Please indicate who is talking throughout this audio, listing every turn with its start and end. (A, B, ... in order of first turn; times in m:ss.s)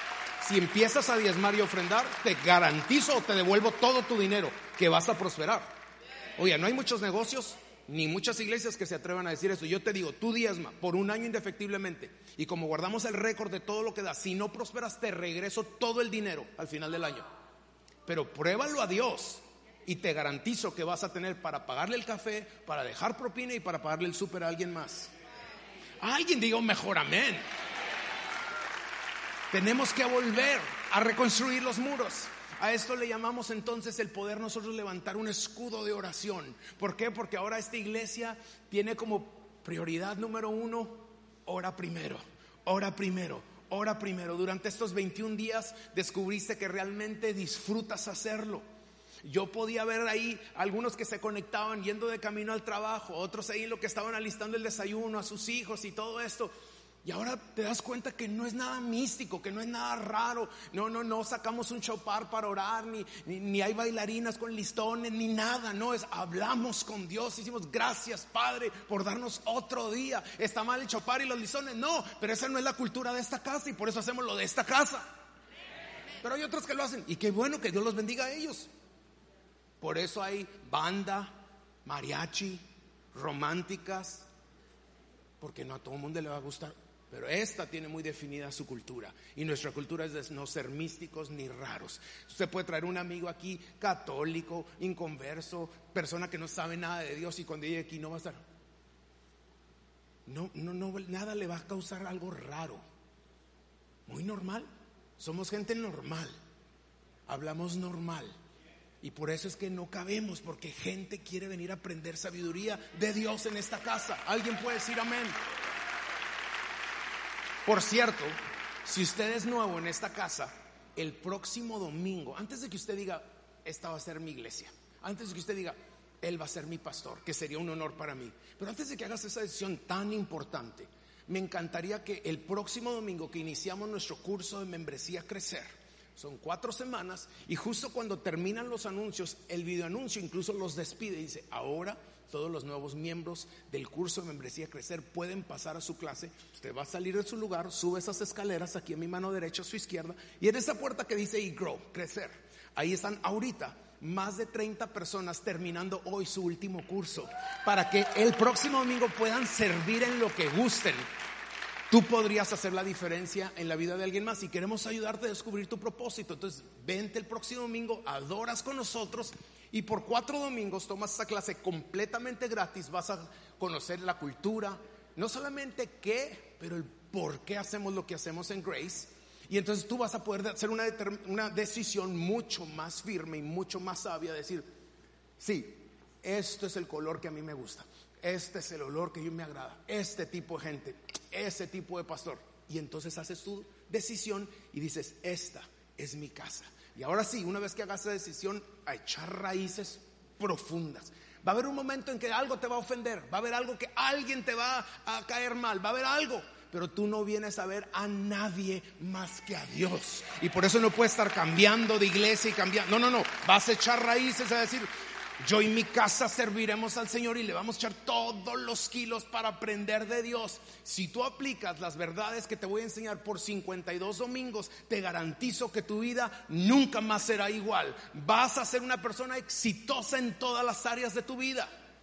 0:00.4-0:05.7 A
0:06.4-0:17.3 A
0:18.1-0:25.1 A
0:26.0-0:27.4 A
0:29.5-0:48.6 A
0:49.2-0:56.5 A
0:57.0-1:15.0 A
1:16.2-1:18.7 A
1:19.8-1:22.6 A
1:23.1-1:24.3 A
1:25.4-1:38.4 A
1:40.3-1:42.8 A
1:44.1-1:44.7 A
1:45.2-1:46.3 A
1:47.3-1:48.4 A
1:49.0-1:55.4 A
1:57.7-2:41.0 A
2:41.9-3:04.7 A
3:05.4-3:34.9 A
3:35.4-3:51.7 A